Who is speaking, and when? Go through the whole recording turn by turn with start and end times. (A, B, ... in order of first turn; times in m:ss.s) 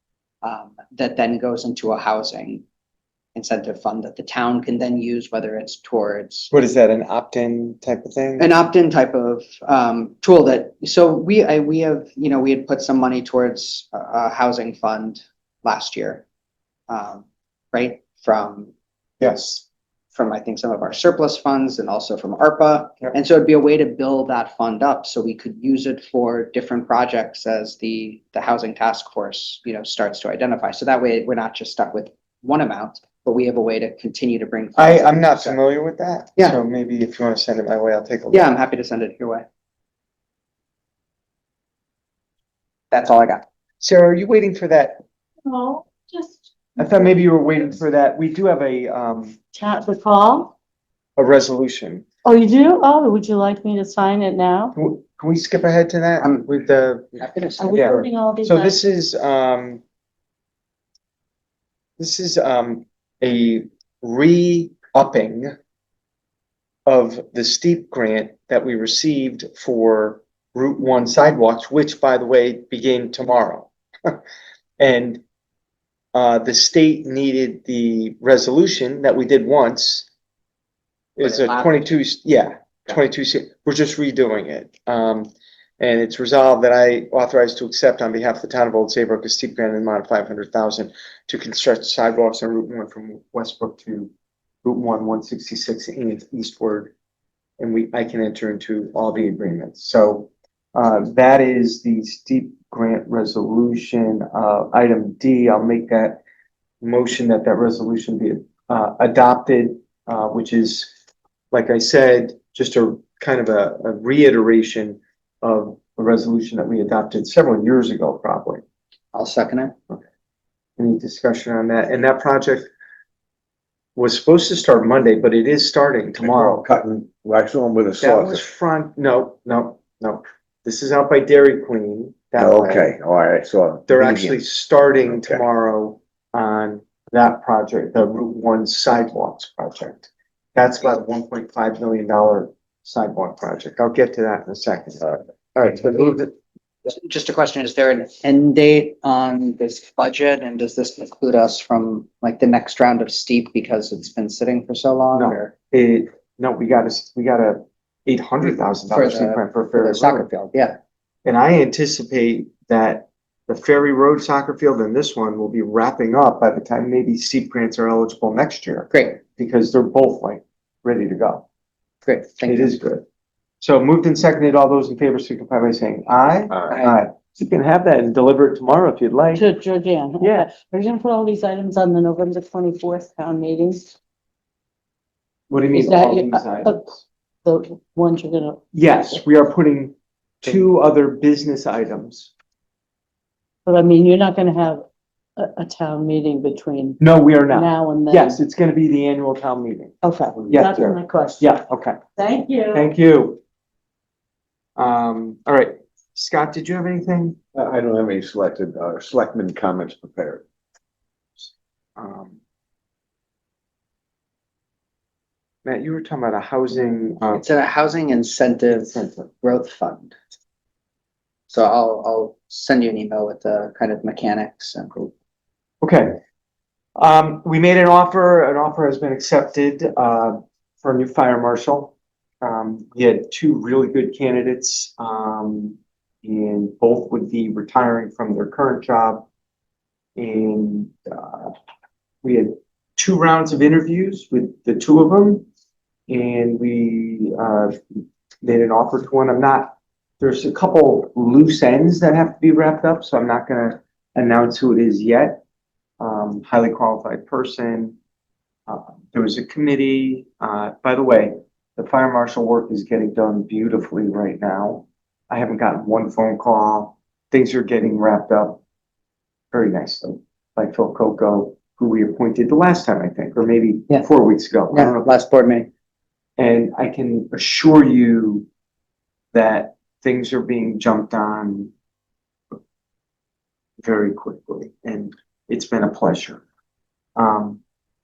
0:00.4-0:02.6 A
0:03.3-0:06.5 A
0:06.5-0:08.5 B
0:08.4-0:16.2 A
0:16.9-0:18.7 A
0:19.2-0:19.6 B
0:20.1-0:35.6 A
0:34.8-0:38.5 B
0:38.3-0:39.4 A
0:42.9-0:43.4 A
0:43.8-0:45.0 B
0:45.4-0:46.8 C
0:46.8-0:49.4 B
0:49.5-0:50.5 C
0:51.2-0:52.0 B
0:52.2-0:54.7 C
0:54.8-0:57.1 B
0:56.2-0:56.5 A
0:57.2-0:57.9 A
0:57.6-0:58.8 C
0:57.7-0:59.8 B
1:02.0-1:05.5 B
1:06.8-1:14.2 B
1:14.8-1:15.2 B
1:16.1-1:20.1 B
1:21.2-1:34.1 B
1:21.2-1:21.9 A
1:34.6-1:36.9 B
1:37.6-1:46.2 B
1:46.8-1:50.9 B
1:51.5-1:58.6 B
1:59.1-1:59.7 A
2:00.8-2:02.7 B
2:04.0-2:06.6 B
2:06.2-2:08.4 D
2:08.0-2:12.9 B
2:12.4-2:14.4 D
2:13.9-2:26.3 B
2:15.1-2:15.4 D
2:26.8-2:35.5 A
2:35.1-2:40.3 B
2:38.9-2:40.8 A
2:41.2-2:51.4 B
2:48.9-2:49.2 A
2:52.0-2:52.8 A
2:52.4-2:53.0 B
2:53.6-2:59.4 B
2:56.7-2:57.0 A
2:59.3-3:03.9 C
3:00.2-3:00.5 B
3:05.5-3:06.9 B
3:05.7-3:06.8 C
3:07.4-3:09.1 C
3:08.7-3:12.3 B
3:13.6-3:14.8 C
3:15.4-3:18.4 C
3:17.0-3:19.9 B
3:20.0-3:21.6 C
3:20.5-3:22.0 B
3:22.2-3:22.9 C
3:22.7-3:23.4 B
3:24.8-3:27.4 B
3:27.5-3:30.4 D
3:32.0-3:32.4 B
3:35.6-3:37.4 B
3:37.3-3:40.1 A
3:38.7-3:39.2 B
3:41.5-3:45.1 A
3:45.8-3:46.1 B
3:47.0-3:59.3 B
4:00.2-4:01.5 B
4:02.2-4:05.4 B
4:06.1-4:15.4 B
4:16.0-4:17.9 B
4:18.7-4:28.6 B
4:29.5-4:35.1 B
4:34.7-4:35.7 A
4:36.4-4:38.5 B
4:39.3-4:41.7 B
4:43.8-4:46.4 B
4:47.2-4:47.6 B